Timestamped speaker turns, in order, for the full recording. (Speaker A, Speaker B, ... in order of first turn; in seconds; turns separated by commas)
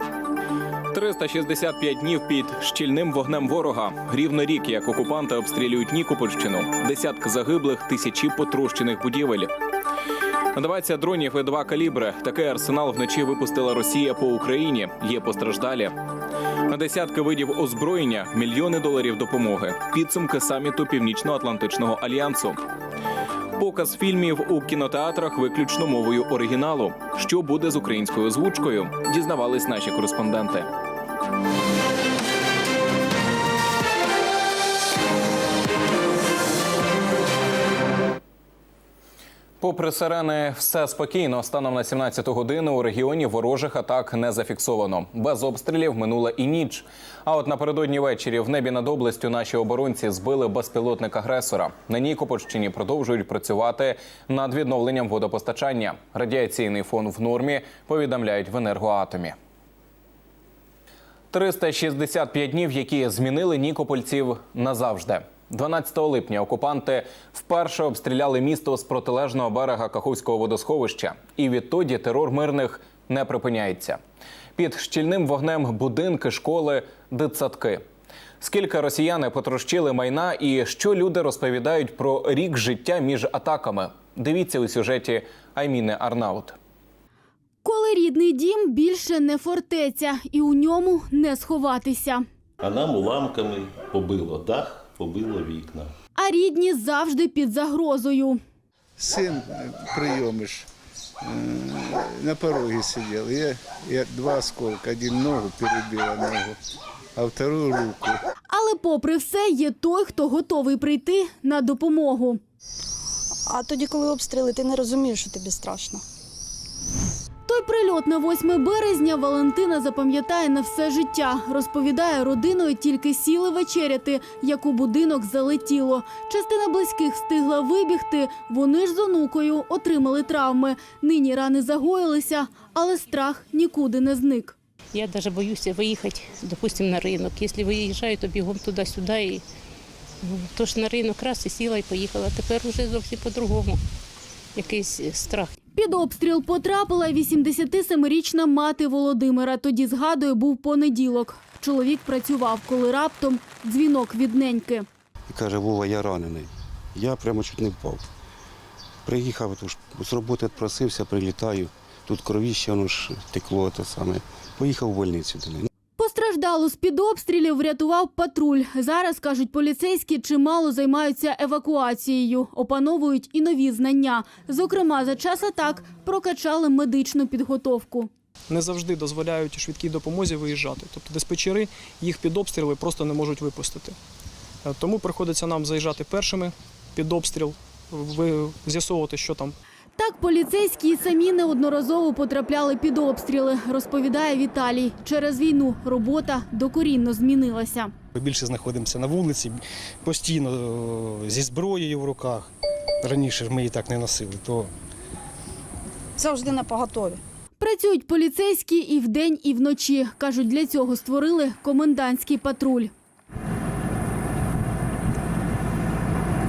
Speaker A: 0.9-9.5, Speaker A: 10.6-16.0, Speaker A: 16.7-22.6, Speaker A: 23.6-30.7, Speaker A: 39.6-59.4, Speaker A: 61.3-74.0, Speaker A: 74.6-77.8, Speaker A: 78.4-86.6, Speaker B: 87.6-92.2, Speaker C: 92.6-95.9, Speaker B: 96.2-98.4, Speaker D: 99.0-100.7, Speaker D: 101.2-106.6, Speaker D: 107.2-108.2, Speaker B: 108.5-112.4, Speaker E: 113.6-115.8, Speaker B: 117.5-134.6, Speaker F: 134.9-139.4, Speaker F: 140.2-143.8, Speaker F: 144.6-145.5, Speaker B: 145.7-154.9, Speaker G: 155.3-158.0, Speaker G: 159.1-165.7, Speaker B: 166.0-178.1, Speaker H: 178.5-184.0, Speaker H: 184.6-189.6, Speaker B: 190.0-197.9, Speaker I: 198.2-202.5, Speaker I: 203.0-204.7, Speaker B: 207.6-212.9